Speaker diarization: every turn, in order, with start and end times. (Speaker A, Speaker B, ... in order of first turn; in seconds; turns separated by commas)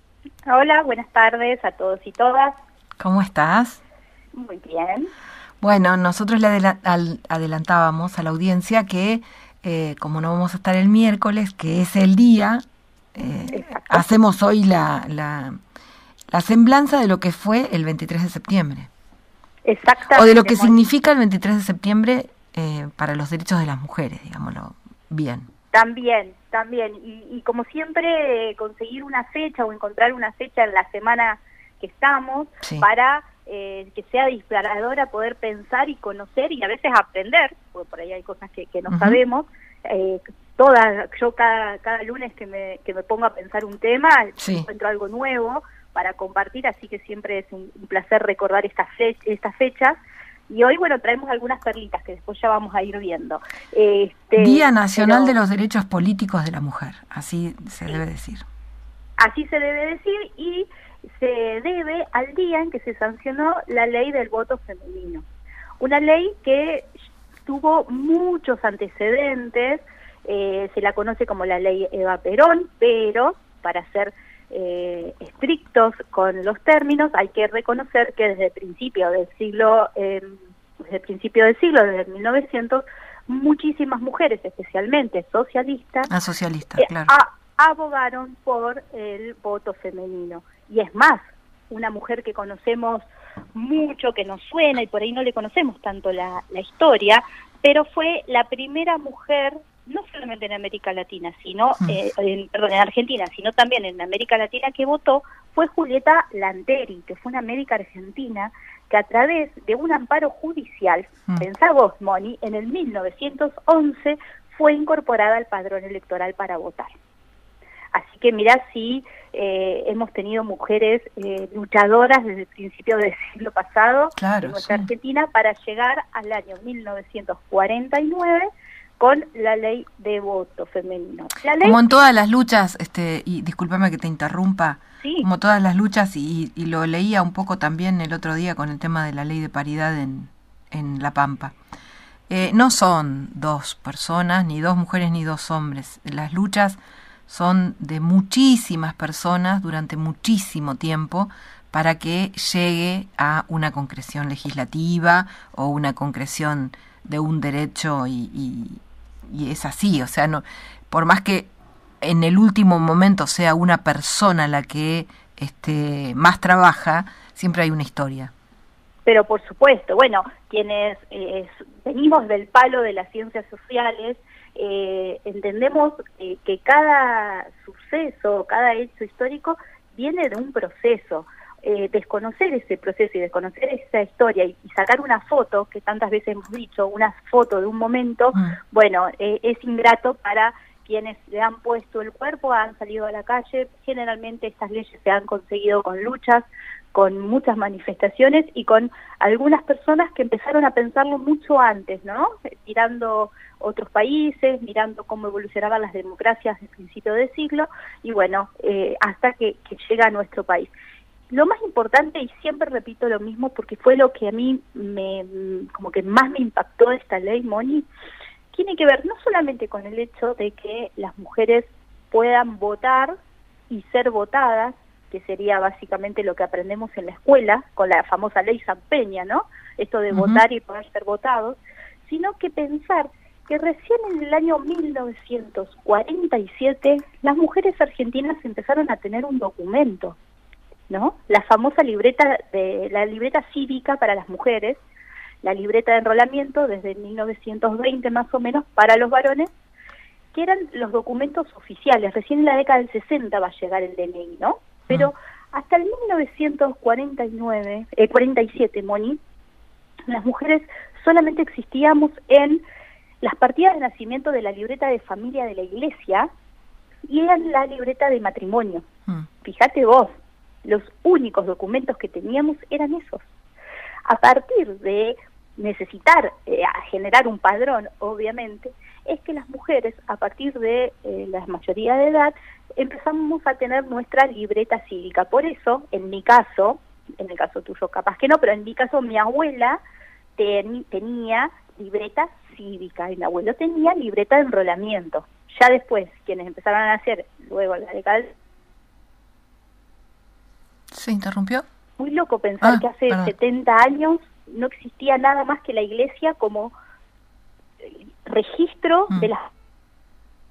Speaker A: 0.5-2.5, Speaker B: 3.0-3.8, Speaker A: 4.3-5.1, Speaker B: 5.6-12.6, Speaker B: 13.1-15.6, Speaker A: 13.5-14.0, Speaker B: 16.3-18.9, Speaker A: 19.6-20.8, Speaker B: 20.1-25.5, Speaker A: 25.7-50.0, Speaker B: 38.9-39.2, Speaker B: 44.4-44.7, Speaker A: 50.5-55.4, Speaker B: 54.4-58.4, Speaker A: 59.2-65.2, Speaker A: 65.8-66.9, Speaker A: 67.5-86.1, Speaker B: 86.1-87.1, Speaker A: 86.8-93.0, Speaker A: 93.5-116.9, Speaker A: 117.9-128.4, Speaker B: 124.2-124.9, Speaker A: 129.0-131.8, Speaker B: 131.6-141.5, Speaker A: 135.0-135.3, Speaker B: 142.3-161.5, Speaker B: 162.0-168.3, Speaker A: 169.1-210.7, Speaker A: 211.3-217.9, Speaker A: 218.5-223.1, Speaker A: 223.7-240.2, Speaker B: 230.1-230.4, Speaker A: 240.9-244.8, Speaker A: 245.4-249.5, Speaker A: 250.3-259.2, Speaker A: 260.1-262.6, Speaker A: 263.2-266.3, Speaker A: 267.1-268.9, Speaker A: 269.4-270.1, Speaker A: 270.6-273.2, Speaker A: 274.1-289.8, Speaker A: 290.4-298.3, Speaker B: 300.9-301.6, Speaker A: 302.0-306.7, Speaker B: 302.6-303.3, Speaker A: 307.8-309.5